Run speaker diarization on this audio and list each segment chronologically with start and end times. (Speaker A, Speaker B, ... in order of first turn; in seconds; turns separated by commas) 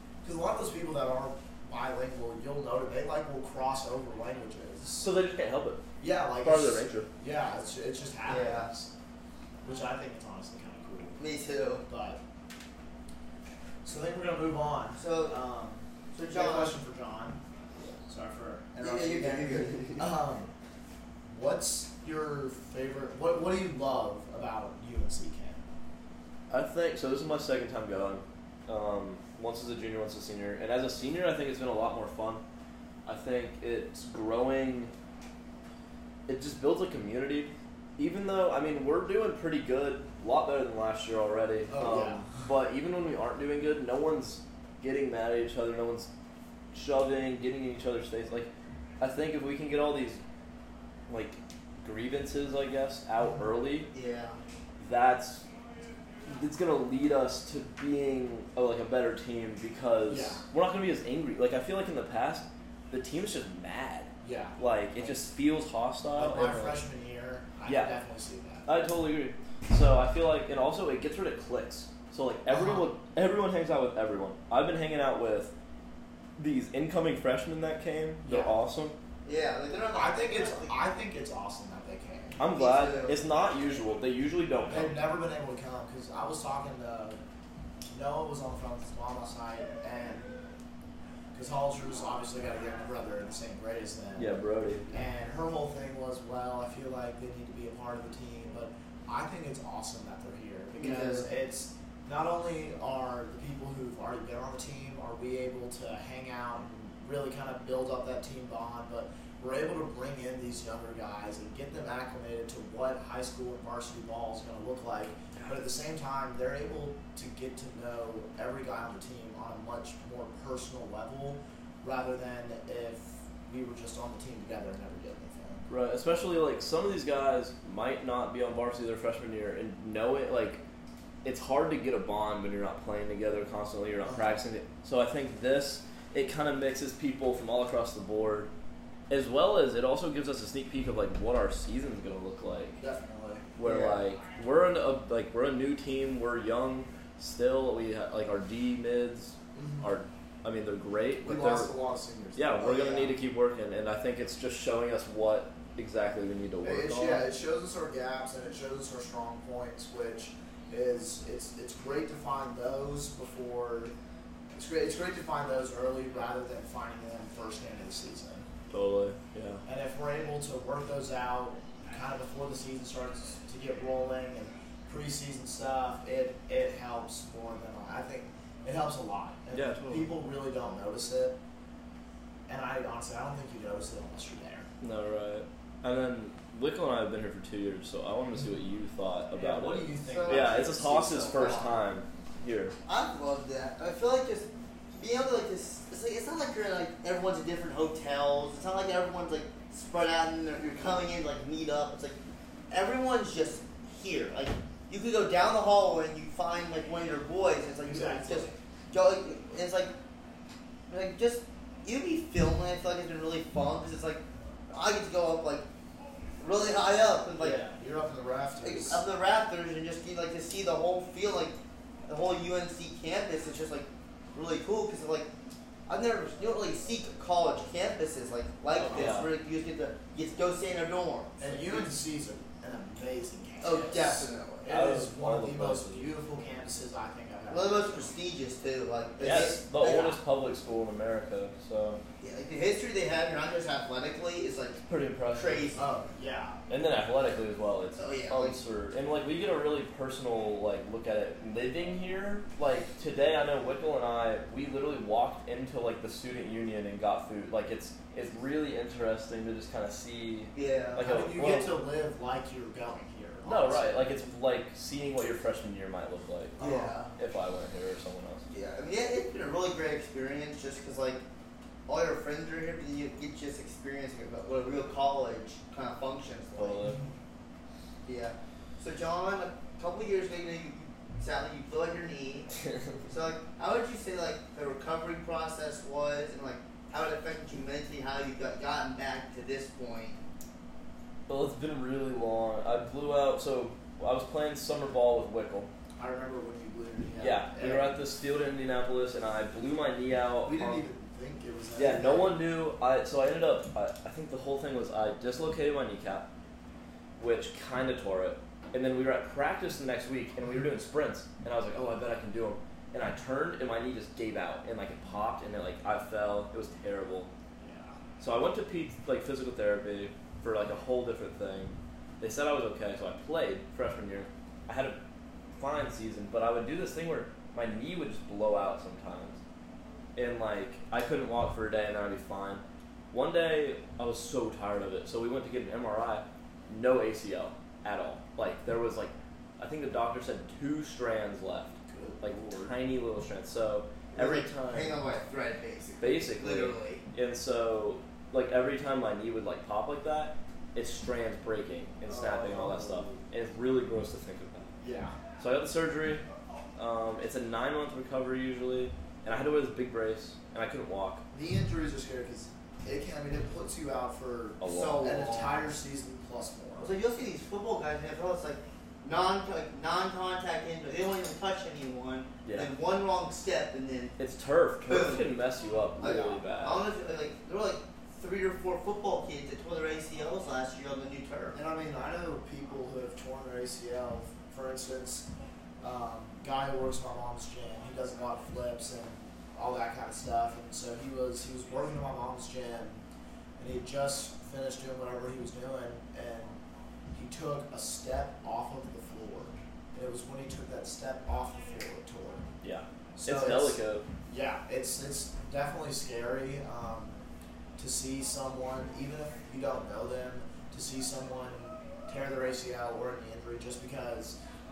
Speaker A: 0.2-5.1, Speaker B: 5.0-5.8, Speaker A: 6.0-8.9, Speaker B: 6.4-7.1, Speaker C: 8.2-8.7, Speaker A: 9.6-11.2, Speaker C: 11.2-11.8, Speaker A: 11.9-12.2, Speaker A: 13.8-17.4, Speaker C: 15.0-15.4, Speaker C: 16.1-16.8, Speaker A: 18.1-20.5, Speaker C: 18.8-20.1, Speaker A: 21.3-25.7, Speaker B: 26.5-32.4, Speaker B: 33.1-34.9, Speaker B: 36.3-46.1, Speaker A: 41.7-42.3, Speaker B: 46.7-50.2, Speaker B: 51.1-53.9, Speaker C: 53.9-54.4, Speaker B: 54.8-55.4, Speaker B: 56.3-66.8, Speaker A: 60.1-60.4, Speaker A: 64.2-65.2, Speaker A: 66.1-68.7, Speaker B: 67.7-68.0, Speaker B: 68.7-75.5, Speaker A: 72.5-72.9, Speaker B: 76.4-78.9, Speaker A: 78.2-78.5, Speaker C: 79.2-80.8, Speaker A: 79.9-82.4, Speaker B: 82.4-85.0, Speaker C: 82.5-83.4, Speaker A: 84.7-87.2, Speaker A: 87.9-90.4, Speaker A: 91.3-94.4, Speaker B: 94.2-94.9, Speaker A: 94.9-125.7, Speaker C: 100.8-101.3, Speaker B: 125.7-130.6, Speaker B: 131.2-138.5, Speaker B: 139.1-142.8, Speaker A: 142.8-143.9, Speaker B: 143.6-151.7, Speaker A: 149.6-149.8, Speaker A: 151.2-153.2, Speaker B: 152.3-157.3, Speaker A: 156.6-163.9, Speaker A: 164.5-168.4, Speaker B: 168.7-169.6, Speaker A: 169.7-181.4, Speaker B: 179.5-180.1, Speaker A: 182.5-184.7, Speaker B: 184.8-192.8, Speaker A: 189.3-191.8, Speaker C: 190.1-191.7, Speaker C: 192.8-202.2, Speaker C: 202.7-209.9, Speaker A: 207.8-208.6, Speaker C: 210.9-215.7, Speaker C: 216.4-217.6, Speaker A: 217.4-219.1, Speaker C: 218.6-221.6, Speaker C: 222.1-225.3, Speaker C: 225.9-231.9, Speaker B: 228.8-229.3, Speaker A: 228.9-229.1, Speaker A: 231.4-238.1, Speaker C: 233.6-234.7, Speaker B: 234.7-236.1, Speaker C: 237.5-240.2, Speaker B: 239.2-242.0, Speaker C: 242.2-245.9, Speaker B: 244.9-245.8, Speaker A: 245.8-246.6, Speaker B: 246.7-261.7, Speaker C: 248.0-248.6, Speaker C: 260.5-261.1, Speaker A: 261.0-264.1, Speaker B: 263.4-268.4, Speaker A: 266.6-267.0, Speaker C: 266.6-267.1, Speaker C: 268.5-271.2, Speaker C: 271.9-276.9, Speaker B: 276.6-277.0, Speaker C: 278.1-282.5, Speaker C: 283.1-290.2, Speaker B: 291.3-295.7, Speaker A: 296.0-298.0, Speaker B: 297.2-300.9, Speaker A: 300.4-302.4, Speaker B: 301.8-306.3, Speaker B: 307.2-317.3, Speaker A: 317.6-318.0, Speaker B: 318.2-325.0, Speaker B: 325.6-329.4, Speaker B: 330.2-345.0, Speaker A: 341.9-342.7, Speaker C: 344.1-347.0, Speaker B: 346.0-354.7, Speaker A: 352.1-353.2, Speaker A: 354.8-355.2, Speaker B: 355.4-356.2, Speaker B: 356.8-361.2, Speaker A: 361.3-366.9, Speaker B: 364.6-365.2, Speaker C: 364.7-365.7, Speaker C: 366.8-374.2, Speaker B: 372.4-372.7, Speaker B: 374.2-376.8, Speaker C: 374.9-375.3, Speaker C: 376.0-381.6, Speaker A: 381.5-385.3, Speaker A: 385.8-393.0, Speaker A: 393.6-396.6, Speaker A: 397.1-402.5, Speaker B: 402.6-404.1, Speaker A: 403.2-407.2, Speaker A: 407.8-414.4